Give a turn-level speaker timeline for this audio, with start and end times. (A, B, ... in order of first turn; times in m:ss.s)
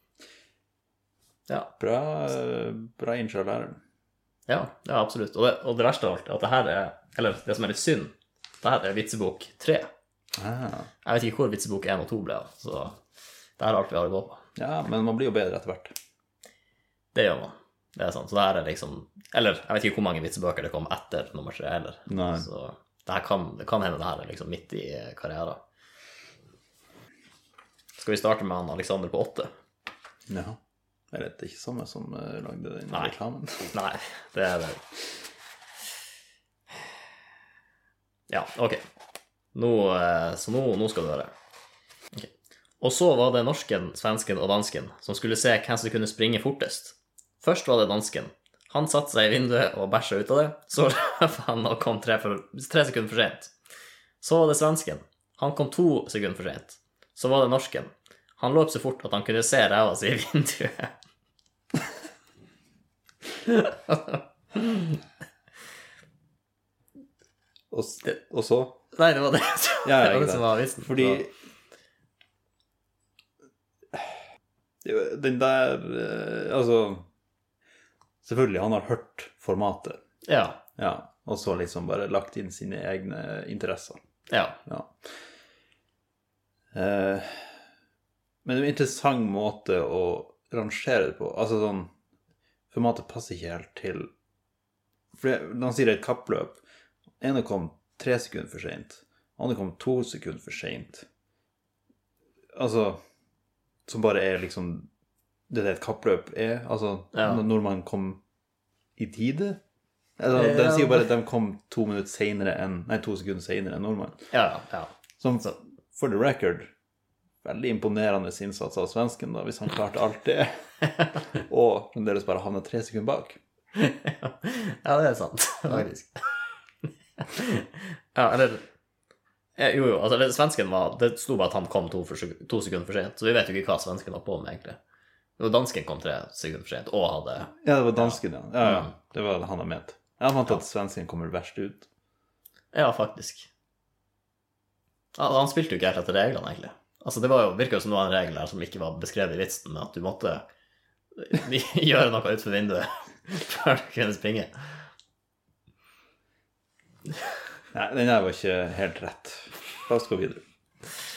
0:01.8-0:03.8 A
0:04.5-0:09.9 B
0:10.4-0:10.9 A
0:11.0-0:13.0 B
0:13.6-0:14.4 B
0:14.6-0:15.9 A
0:17.1-0:25.6 B
0:22.1-0:22.5 A
0:28.0-0:29.5 B
0:30.3-0:30.6 A
0:31.1-0:33.7 A
0:33.7-0:34.8 B
0:38.3-0:38.8 B
0:39.5-0:41.3 B
0:42.1-0:53.5 B
0:54.2-1:00.9 B
1:03.4-1:05.0 B
1:07.7-1:08.8 A
1:08.9-1:11.2 B
1:09.8-1:11.3 A
1:14.8-1:17.1 A
1:18.2-1:20.0 A
1:20.2-1:20.6 B
1:20.8-1:24.0 A
1:24.3-1:24.6 B
1:24.6-1:25.1 A
1:26.7-1:27.6 A
1:28.4-1:31.9 A
1:32.7-1:34.1 A
1:35.1-1:36.6 A
1:37.2-1:41.1 A
1:42.5-1:43.0 A
1:43.9-1:44.9 A
1:45.5-1:48.2 A
1:47.1-1:47.4 B
1:49.0-1:49.6 A
1:50.2-1:54.3 A
1:50.3-1:51.1 B
1:54.3-1:55.5 B
1:55.2-1:56.7 A
1:57.4-2:00.7 A
2:01.3-2:03.4 A
2:03.7-2:06.4 B
2:07.2-2:08.6 B
2:09.6-2:14.8 B
2:15.4-2:18.9 B
2:17.6-2:21.9 A
2:22.7-2:23.5 B
2:25.1-2:30.4 B
2:31.1-2:34.8 B
2:37.7-2:40.4 A